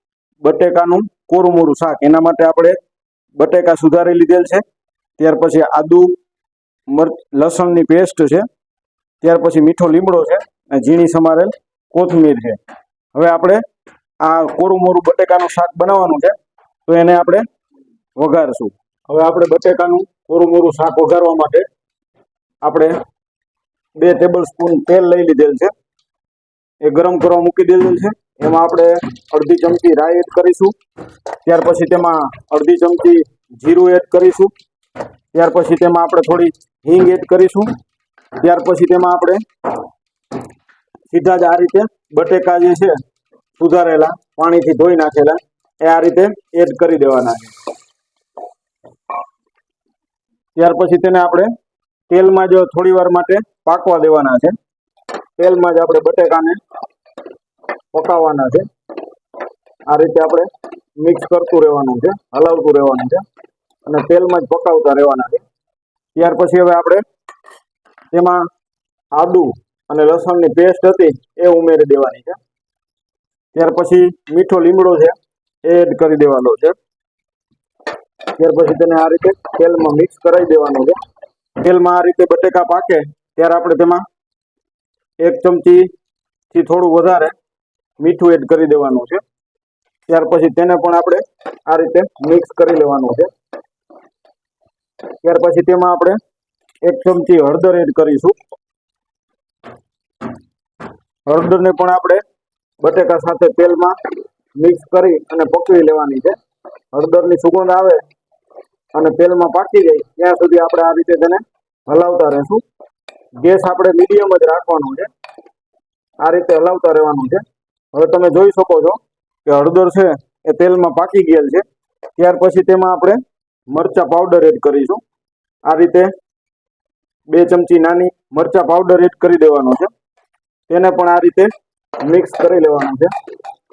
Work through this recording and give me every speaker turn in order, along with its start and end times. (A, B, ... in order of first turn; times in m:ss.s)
0:00.4-0:02.8 A
0:03.4-0:04.6 A
0:05.2-0:06.2 A
0:06.9-0:08.5 A
0:09.2-0:12.6 A
0:13.1-0:13.6 A
0:14.2-0:16.4 A
0:16.9-0:17.4 A
0:18.2-0:21.7 A
0:22.6-0:23.0 A
0:24.0-0:25.7 A
0:26.8-0:30.8 A
0:31.4-0:34.5 A
0:35.3-0:37.7 A
0:38.4-0:39.4 A
0:41.1-0:43.0 A
0:43.6-0:47.5 A
0:50.6-0:51.5 A
0:52.1-0:54.6 A
0:55.4-0:56.6 A
0:57.9-0:58.7 A
0:59.9-1:03.2 A
1:03.9-1:05.4 A
1:06.2-1:07.0 A
1:08.1-1:08.5 A
1:09.1-1:12.4 A
1:13.5-1:16.8 A
1:18.3-1:21.0 A
1:21.6-1:24.1 A
1:25.2-1:25.9 A
1:26.5-1:27.4 A
1:28.0-1:29.2 A
1:30.1-1:33.3 A
1:35.2-1:36.2 A
1:36.8-1:38.4 A
1:41.3-1:42.2 A
1:42.8-1:44.0 A
1:44.6-1:46.4 A
1:46.9-1:48.0 A
1:48.9-1:52.6 A
1:53.4-1:55.1 A
1:56.2-2:01.6 A
2:02.2-2:05.0 A
2:05.6-2:06.1 A
2:07.3-2:09.9 A
2:10.7-2:11.5 A
2:12.0-2:13.1 A